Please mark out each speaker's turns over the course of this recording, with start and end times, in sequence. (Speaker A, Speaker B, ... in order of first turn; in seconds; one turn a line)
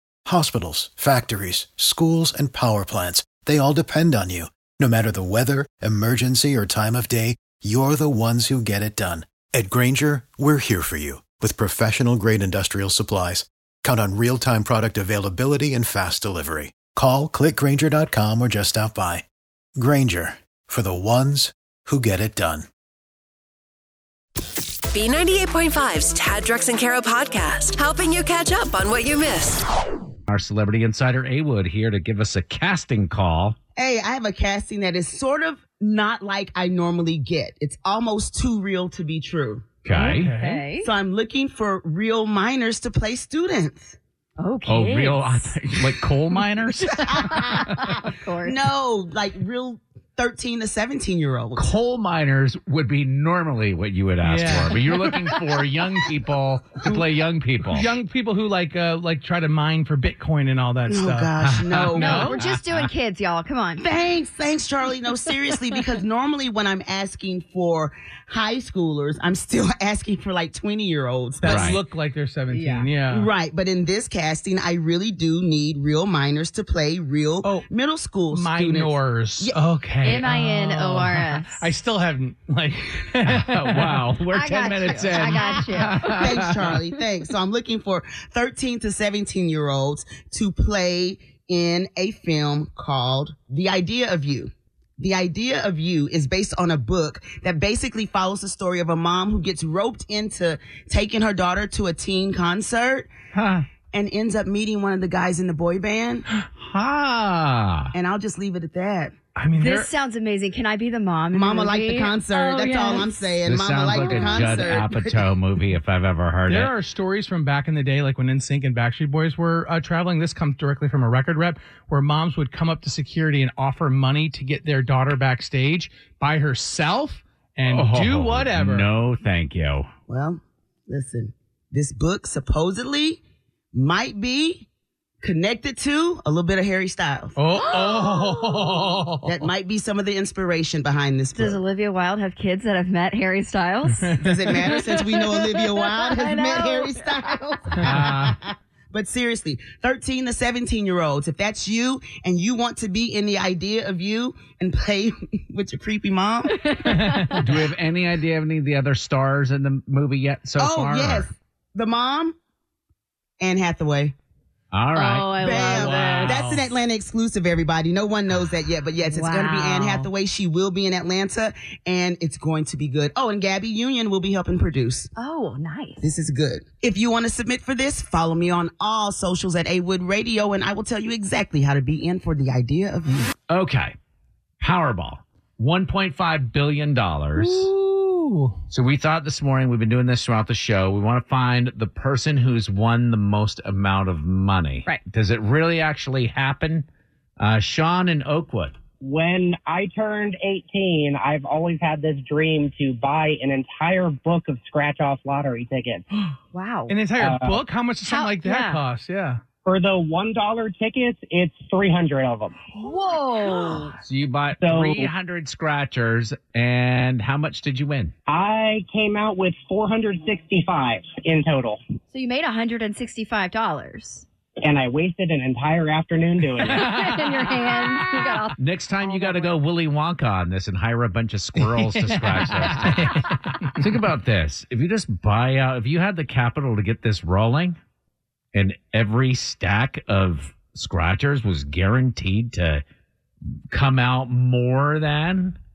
Speaker A: 0.2-19.2
Speaker A: 19.8-22.7
Speaker B: 24.9-29.6
Speaker C: 30.3-33.5
Speaker D: 33.8-39.6
Speaker C: 39.8-40.3
Speaker E: 39.9-40.9
Speaker F: 39.9-40.6
Speaker D: 40.8-44.0
Speaker E: 44.4-45.6
Speaker C: 44.6-47.7
Speaker D: 46.9-47.9
Speaker E: 47.2-48.6
Speaker D: 48.4-51.7
Speaker C: 51.5-57.9
Speaker F: 54.2-55.1
Speaker F: 57.6-62.4
Speaker D: 60.9-62.3
Speaker C: 61.4-62.9
Speaker E: 62.0-63.9
Speaker D: 63.8-71.7
Speaker F: 71.4-73.3
Speaker C: 71.5-71.8
Speaker E: 72.5-72.9
Speaker D: 73.1-79.6
Speaker F: 78.3-84.0
Speaker E: 80.0-81.7
Speaker C: 83.2-86.5
Speaker E: 84.3-86.5
Speaker F: 85.3-85.7
Speaker D: 86.0-103.1
Speaker C: 103.3-103.6
Speaker D: 103.9-106.2
Speaker C: 106.3-107.9
Speaker D: 107.9-109.1
Speaker F: 109.3-109.9
Speaker E: 109.6-113.2
Speaker D: 111.3-115.3
Speaker C: 113.5-116.7
Speaker E: 113.9-114.7
Speaker F: 116.5-128.9
Speaker C: 127.7-129.9
Speaker D: 130.1-133.2
Speaker D: 133.7-134.7
Speaker D: 135.2-137.4
Speaker F: 137.3-139.4
Speaker E: 137.6-138.8
Speaker D: 139.2-141.6
Speaker E: 141.3-147.4
Speaker F: 144.0-144.8
Speaker D: 144.2-156.7
Speaker C: 147.8-148.3
Speaker E: 156.5-157.4
Speaker F: 156.8-157.5
Speaker C: 157.4-161.3
Speaker D: 160.6-162.3
Speaker D: 163.4-164.1
Speaker C: 164.7-165.3
Speaker E: 164.9-166.5
Speaker D: 165.4-175.1
Speaker F: 165.5-166.7
Speaker E: 169.0-170.1
Speaker E: 175.2-176.0
Speaker D: 176.0-183.3
Speaker C: 183.5-183.9
Speaker C: 184.6-187.7
Speaker F: 187.3-188.6
Speaker C: 188.7-196.8
Speaker C: 197.4-198.7
Speaker G: 199.0-206.1
Speaker E: 206.5-206.9
Speaker F: 206.9-209.4
Speaker G: 207.2-207.6
Speaker E: 208.0-208.8
Speaker G: 209.6-212.6
Speaker E: 212.7-213.9
Speaker C: 214.0-218.1
Speaker G: 214.6-215.1
Speaker G: 218.3-221.8
Speaker E: 222.1-224.2
Speaker G: 224.6-227.0
Speaker E: 226.6-229.6
Speaker F: 227.7-227.9
Speaker C: 228.6-237.8
Speaker F: 231.6-234.0
Speaker C: 238.5-242.8
Speaker C: 243.7-245.6